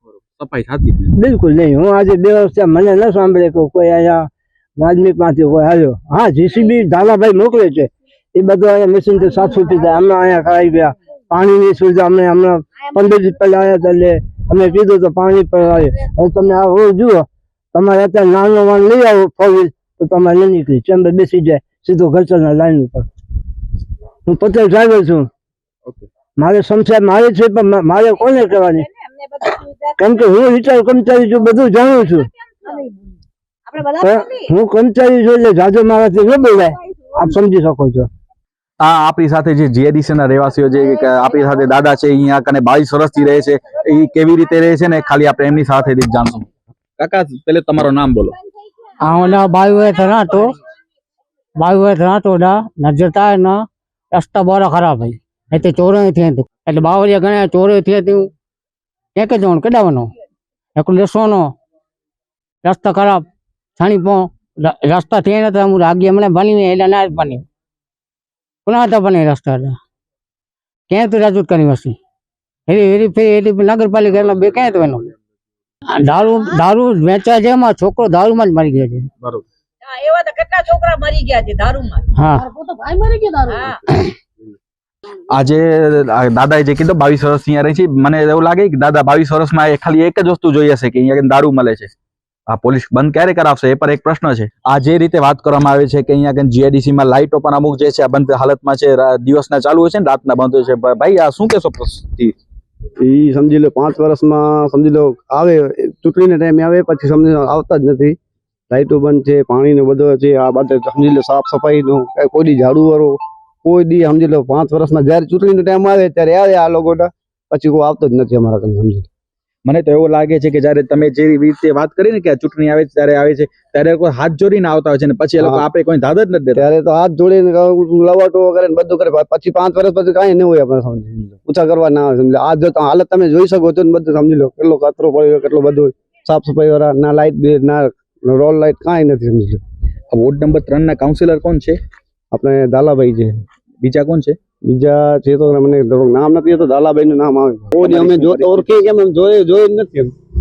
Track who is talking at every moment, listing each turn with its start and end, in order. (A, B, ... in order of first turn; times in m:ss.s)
0:00.1-0:01.1 A
0:01.2-0:23.1 B
0:24.3-0:25.3 B
0:26.4-0:28.9 B
0:29.5-0:32.3 B
0:33.9-0:38.1 B
0:38.8-0:48.4 A
0:49.0-0:50.6 C
0:51.6-0:58.3 C
0:59.2-1:00.1 C
1:00.8-1:01.6 C
1:02.6-1:07.5 C
1:08.7-1:09.8 C
1:10.9-1:12.0 C
1:12.7-1:15.1 C
1:15.9-1:19.1 C
1:19.9-1:22.0 D
1:22.1-1:22.5 C
1:23.5-1:23.8 D
1:25.3-1:31.9 A
1:32.5-1:42.4 A
1:43.0-1:48.2 E
1:48.7-1:59.1 E
1:59.6-2:06.6 A
2:05.4-2:05.7 E
2:06.6-2:19.6 E
2:20.1-2:21.8 A
2:22.3-2:23.4 E
2:23.8-2:24.4 A
2:24.6-2:30.1 E
2:27.8-2:28.9 A